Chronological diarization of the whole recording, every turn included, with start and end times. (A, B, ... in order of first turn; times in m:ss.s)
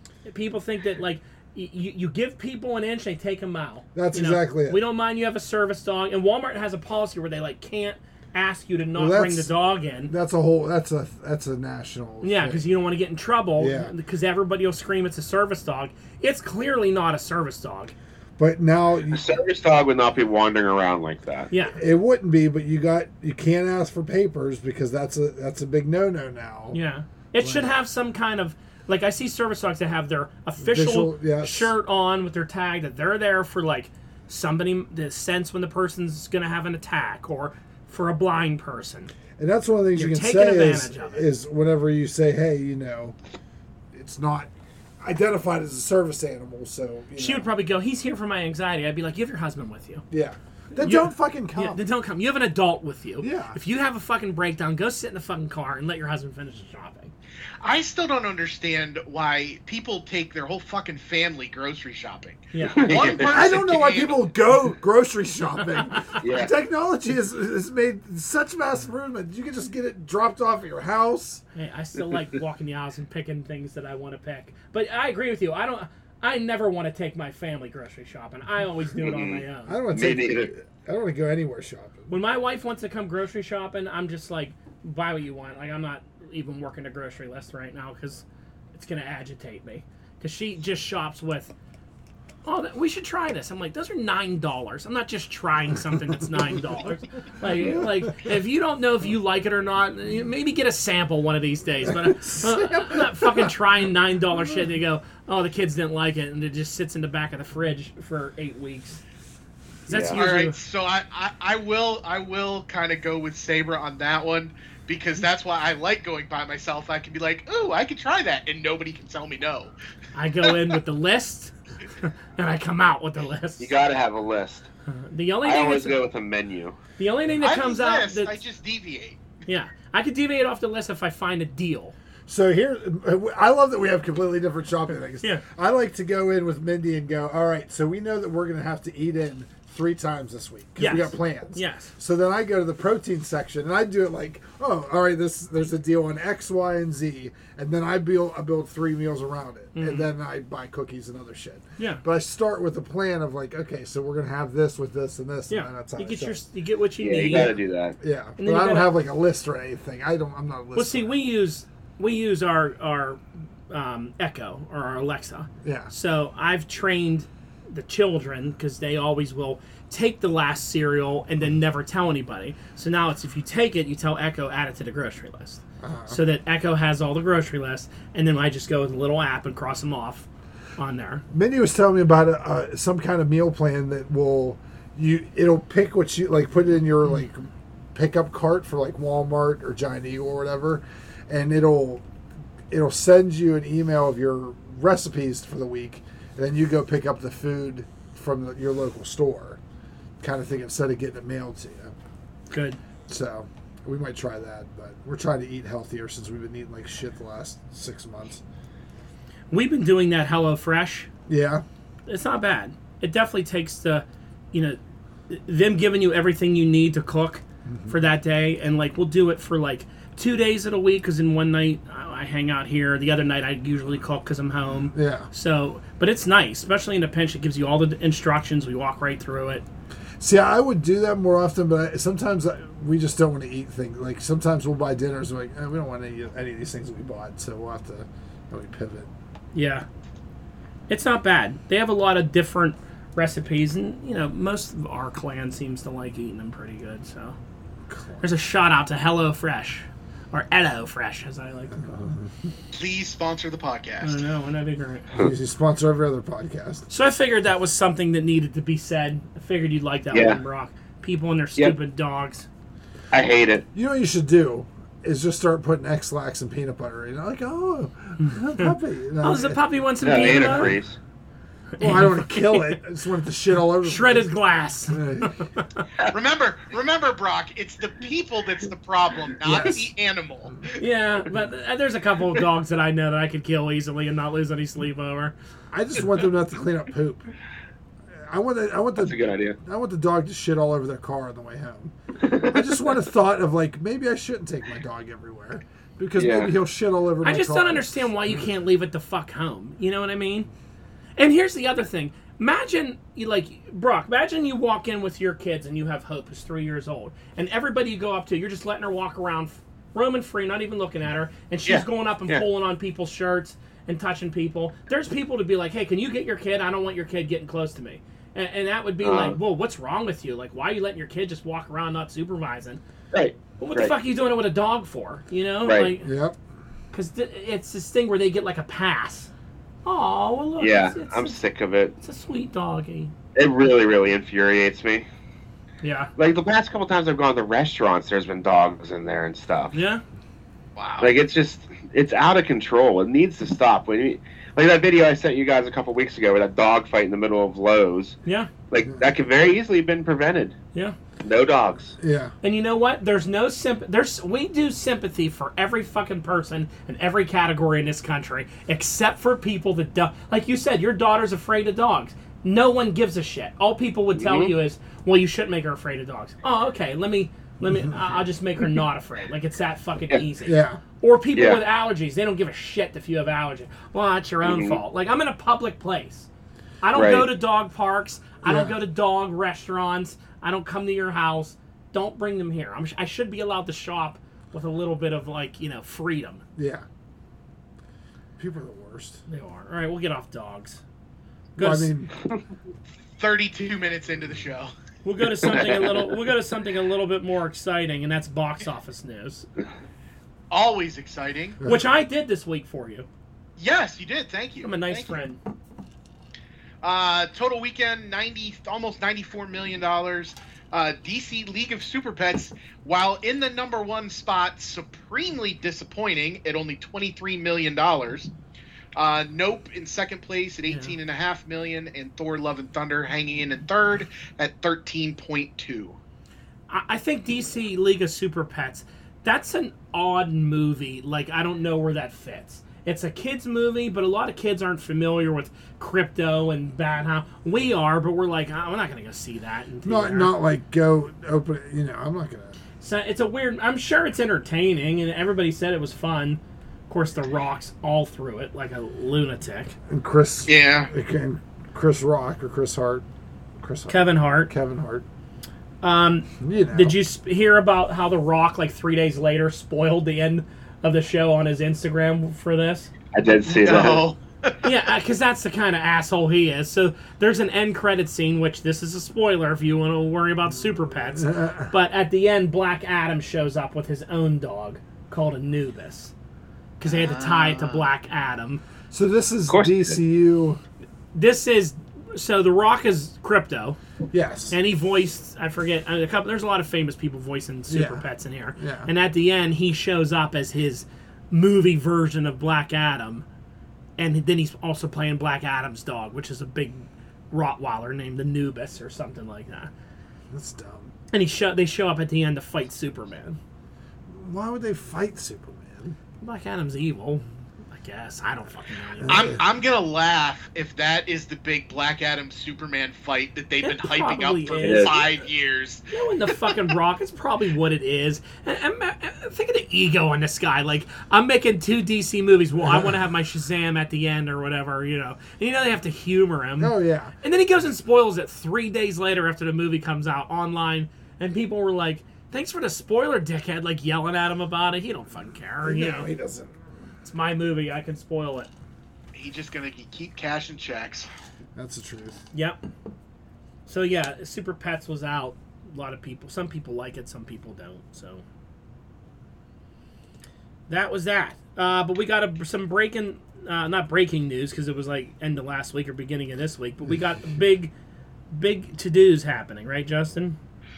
0:00.2-0:10.1 A
0:03.9-0:04.8 B
0:08.9-0:09.5 B
0:10.1-0:12.6 B
0:12.2-0:17.9 A
0:13.6-0:13.9 B
0:18.4-0:19.2 B
0:19.1-0:21.5 C
0:21.5-0:21.8 A
0:21.7-0:26.8 B
0:26.7-0:39.1 A
0:27.4-0:27.7 B
0:30.6-0:31.7 B
0:39.4-0:43.2 B
0:39.9-0:41.2 A
0:43.9-0:44.5 B
0:45.0-0:47.5 B
0:47.2-0:50.0 A
0:50.1-0:51.8 B
0:50.7-0:57.1 A
0:53.2-0:53.6 B
0:57.6-1:04.2 D
1:02.5-1:03.2 A
1:02.6-1:03.4 C
1:03.3-1:11.4 B
1:05.9-1:06.2 A
1:06.2-1:06.5 C
1:11.5-1:19.8 A
1:19.0-1:20.5 C
1:19.7-1:22.2 B
1:22.1-1:31.5 A
1:32.4-1:49.0 A
1:37.6-1:38.3 B
1:41.9-1:43.5 B
1:49.9-1:50.6 A
1:49.9-1:50.2 C
1:50.1-1:59.7 D
2:00.1-2:03.7 A
2:03.6-2:04.7 C
2:04.9-2:06.0 A
2:05.4-2:06.8 C
2:07.0-2:08.4 A
2:07.4-2:09.2 D
2:09.4-2:11.9 A
2:12.3-2:36.4 B
2:20.8-2:21.9 A
2:29.7-2:30.1 A
2:35.5-2:37.6 A
2:37.0-2:38.0 C
2:38.0-2:41.1 B
2:38.4-2:38.9 A
2:40.7-3:01.2 A
2:45.6-2:45.9 B
2:55.8-2:56.2 B
3:01.3-3:12.0 B
3:12.7-3:19.6 B
3:20.2-3:21.9 B
3:22.5-3:22.8 A
3:23.1-3:28.4 B
3:29.5-3:31.1 A
3:31.3-3:31.6 B
3:32.1-3:49.6 A
3:37.6-3:38.0 B
3:44.9-3:45.3 B
3:50.2-3:59.1 B
3:59.5-3:59.8 A
4:00.9-4:07.4 A
4:07.9-4:08.3 B
4:08.2-4:11.8 A
4:11.7-4:12.5 B
4:12.7-4:14.2 D
4:14.0-4:15.1 A
4:15.1-4:16.9 B
4:16.9-4:22.5 A
4:20.1-4:20.4 C
4:23.1-4:23.6 C
4:23.7-4:29.6 B
4:28.2-4:30.8 A
4:30.0-4:31.0 C
4:30.1-4:30.7 B
4:31.8-4:32.8 A
4:31.8-4:34.3 B
4:33.8-4:35.9 A
4:34.9-4:35.4 B
4:36.1-4:40.7 D
4:39.4-4:39.9 B
4:40.8-4:45.3 A
4:45.7-4:47.2 B
4:48.1-4:58.0 B
4:49.0-4:49.6 C
4:52.2-4:52.5 C
4:56.2-4:56.5 C
4:57.2-5:00.5 A
5:01.2-5:22.8 A
5:11.6-5:12.4 C
5:19.0-5:19.4 C
5:23.1-5:23.9 C
5:23.6-5:26.1 A
5:25.6-5:25.9 C
5:26.0-5:26.4 B
5:26.9-5:29.3 A
5:29.8-5:31.4 A
5:30.6-5:31.9 C
5:32.0-5:33.1 A
5:33.4-5:35.1 C
5:35.8-5:36.1 A
5:36.2-5:39.7 C
5:39.7-5:40.0 A
5:40.8-5:41.1 D
5:41.0-5:48.2 C
5:48.2-5:48.5 A
5:48.7-5:50.5 C
5:51.2-5:51.9 C
5:52.0-5:52.3 B
5:52.4-6:16.3 A
6:04.2-6:04.5 C
6:10.4-6:10.8 B
6:11.3-6:11.6 C
6:14.4-6:14.8 C
6:16.8-6:26.4 A
6:16.9-6:17.3 C
6:18.4-6:18.8 B
6:26.6-6:26.8 B
6:28.4-6:29.2 B
6:29.3-6:30.8 A
6:31.6-6:31.9 A
6:31.6-6:32.1 B
6:33.2-6:34.7 D
6:35.0-6:39.5 A
6:35.4-6:36.1 C
6:40.5-6:41.6 D
6:41.6-6:41.8 B
6:41.6-6:43.1 A
6:43.6-6:45.2 D
6:44.6-6:45.4 A
6:46.8-6:58.3 D
6:59.0-7:06.0 D
7:00.7-7:00.9 A
7:06.7-7:20.3 A
7:19.8-7:22.6 B
7:22.8-7:29.7 A
7:29.9-7:33.0 B
7:30.5-7:30.9 D
7:33.6-7:35.0 B
7:33.9-7:34.5 A
7:35.8-7:42.9 A
7:36.4-7:37.0 B
7:43.1-7:44.0 C
7:43.5-7:44.6 D
7:44.6-7:56.1 A
7:51.1-7:51.7 B
7:56.8-7:58.6 A
7:56.8-7:57.9 D
7:58.9-8:00.6 B
7:59.5-8:00.0 C
8:01.1-8:03.8 A
8:04.1-8:04.6 B
8:04.5-8:13.2 A
8:07.7-8:08.9 B
8:14.0-8:19.7 A
8:20.3-8:20.9 B
8:21.1-8:23.4 A
8:24.1-8:26.0 B
8:26.2-8:29.4 A
8:29.0-8:29.4 B
8:29.1-8:36.5 D
8:33.6-8:35.0 A
8:34.6-8:35.0 C
8:35.9-8:56.1 A
8:46.6-8:47.1 B
8:55.6-8:56.6 B
8:57.0-8:58.5 A
8:59.1-9:01.1 D
9:01.5-9:02.2 B
9:02.3-9:02.6 A
9:03.7-9:08.2 A
9:10.7-9:17.7 A
9:18.3-9:20.4 A